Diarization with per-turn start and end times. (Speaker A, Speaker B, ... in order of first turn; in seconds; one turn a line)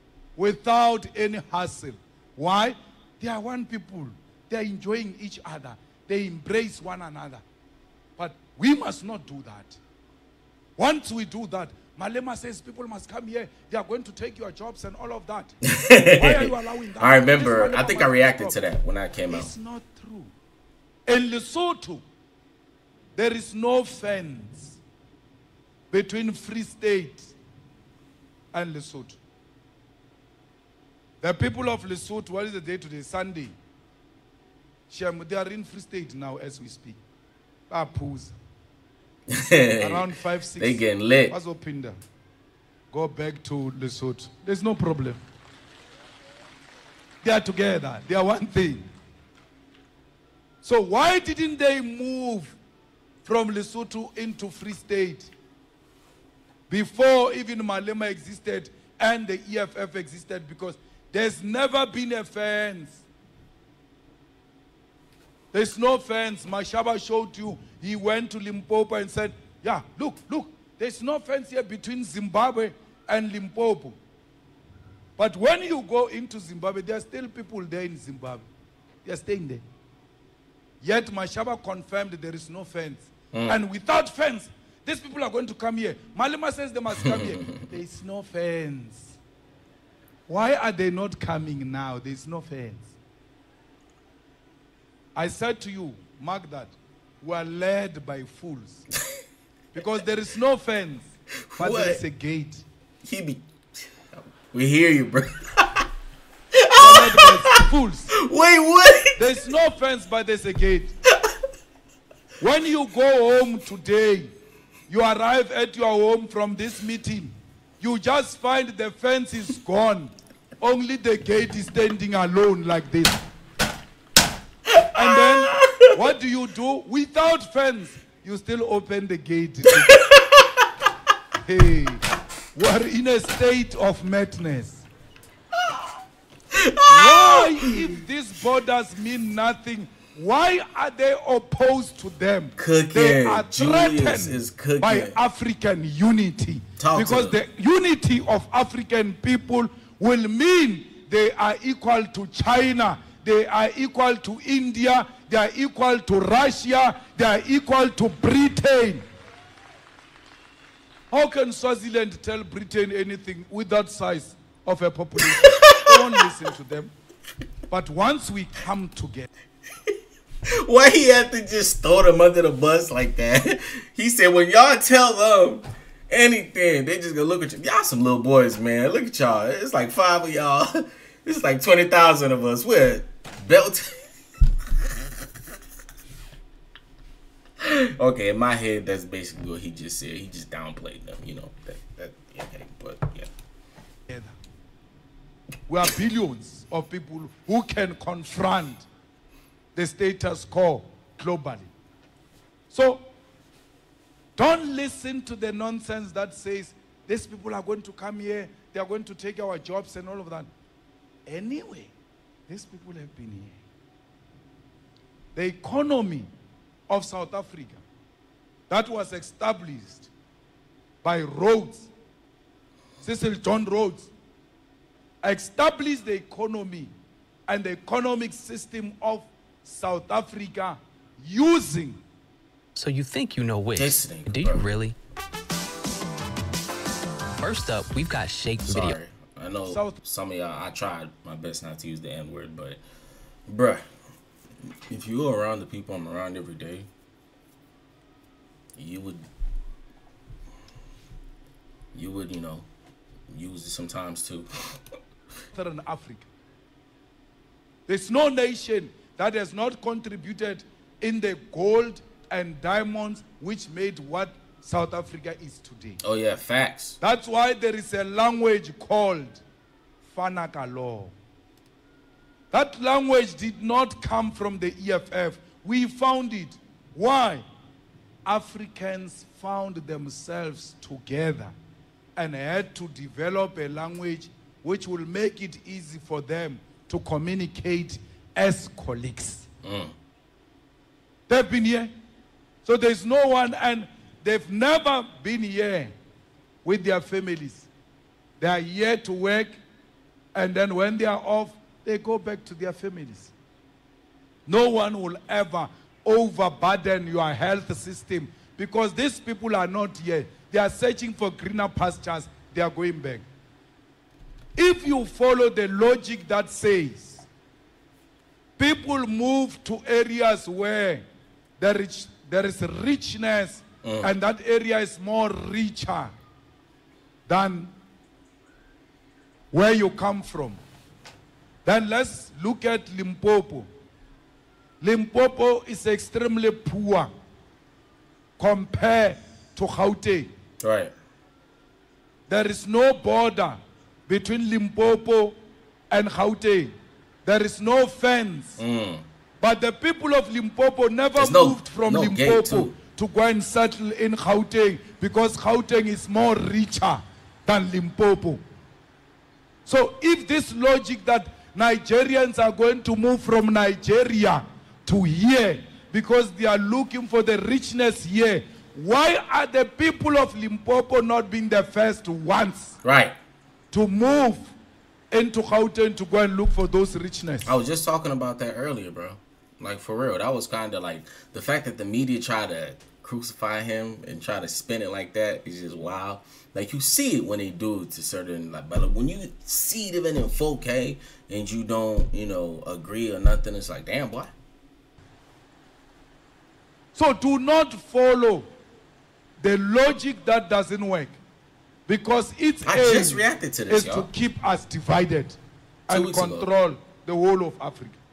Speaker A: 0.4-7.4
Speaker A: 8.2-9.8
Speaker A: 10.8-15.6
Speaker B: 15.7-19.5
Speaker A: 16.1-18.6
Speaker A: 19.3-20.3
Speaker A: 21.1-22.0
Speaker A: 23.1-24.8
Speaker A: 25.9-27.4
Speaker A: 28.5-29.2
Speaker A: 31.2-33.5
Speaker A: 34.9-37.0
Speaker A: 37.7-38.4
Speaker B: 39.3-41.4
Speaker A: 39.8-42.0
Speaker A: 42.9-45.2
Speaker A: 47.2-48.9
Speaker A: 50.6-52.6
Speaker A: 53.2-55.3
Speaker A: 56.7-63.0
Speaker A: 65.5-74.0
Speaker A: 75.2-78.5
Speaker A: 79.0-79.6
Speaker A: 80.8-89.2
Speaker B: 87.0-87.5
Speaker A: 90.3-92.9
Speaker A: 95.2-98.9
Speaker A: 99.7-102.6
Speaker B: 101.5-102.0
Speaker B: 103.0-103.5
Speaker B: 104.1-105.8
Speaker B: 106.6-107.6
Speaker A: 106.8-108.1
Speaker B: 108.2-109.2
Speaker A: 109.2-110.9
Speaker A: 112.4-114.3
Speaker A: 114.9-123.2
Speaker B: 124.7-125.9
Speaker A: 124.9-130.0
Speaker B: 129.9-130.5
Speaker A: 131.4-132.0
Speaker A: 132.6-134.8
Speaker B: 136.5-137.8
Speaker A: 136.9-159.0
Speaker B: 142.6-145.2
Speaker B: 146.8-147.4
Speaker A: 161.1-166.9
Speaker B: 165.3-166.0
Speaker A: 167.7-169.3
Speaker B: 170.6-184.0
Speaker B: 187.6-193.3
Speaker A: 194.1-194.3
Speaker A: 195.7-198.9
Speaker A: 199.8-201.7
Speaker A: 202.7-203.1
Speaker A: 204.4-210.5
Speaker A: 211.3-211.9
Speaker A: 212.5-213.6
Speaker A: 215.3-216.3
Speaker A: 216.9-217.8
Speaker A: 218.7-220.1
Speaker A: 221.0-221.9
Speaker A: 223.0-224.1
Speaker A: 225.2-226.9
Speaker A: 227.5-232.0
Speaker C: 232.8-235.0
Speaker B: 233.8-234.7
Speaker C: 237.4-239.0
Speaker B: 238.7-242.8
Speaker A: 239.7-240.0
Speaker B: 243.5-243.8
Speaker B: 244.9-246.9
Speaker B: 248.8-249.3
Speaker B: 251.9-252.7
Speaker B: 253.3-254.5
Speaker A: 255.5-256.3
Speaker A: 257.9-266.0
Speaker B: 266.0-267.0
Speaker A: 267.0-269.4
Speaker A: 270.0-271.1
Speaker A: 272.5-277.4
Speaker A: 278.2-281.5
Speaker A: 282.2-289.5
Speaker B: 289.6-289.9
Speaker A: 291.3-291.9
Speaker A: 292.6-295.9
Speaker A: 296.6-297.7
Speaker A: 298.4-299.6
Speaker A: 300.4-303.3
Speaker A: 304.5-313.2
Speaker A: 314.6-317.3
Speaker A: 318.6-321.1
Speaker A: 321.6-326.1
Speaker B: 323.8-324.1
Speaker A: 327.3-327.7
Speaker A: 329.5-330.6
Speaker A: 331.6-333.7
Speaker A: 334.8-337.1
Speaker A: 338.4-340.3
Speaker B: 340.6-340.9
Speaker A: 342.3-345.4
Speaker A: 345.9-346.7
Speaker A: 347.2-348.6
Speaker B: 348.6-349.1
Speaker A: 349.4-358.4
Speaker B: 351.2-352.7
Speaker A: 359.7-372.8
Speaker B: 372.8-373.2
Speaker A: 373.7-374.5
Speaker A: 375.1-377.6
Speaker B: 377.5-394.3
Speaker A: 396.9-398.5
Speaker A: 399.4-401.2
Speaker A: 401.9-408.0
Speaker B: 402.6-404.1
Speaker B: 405.9-406.5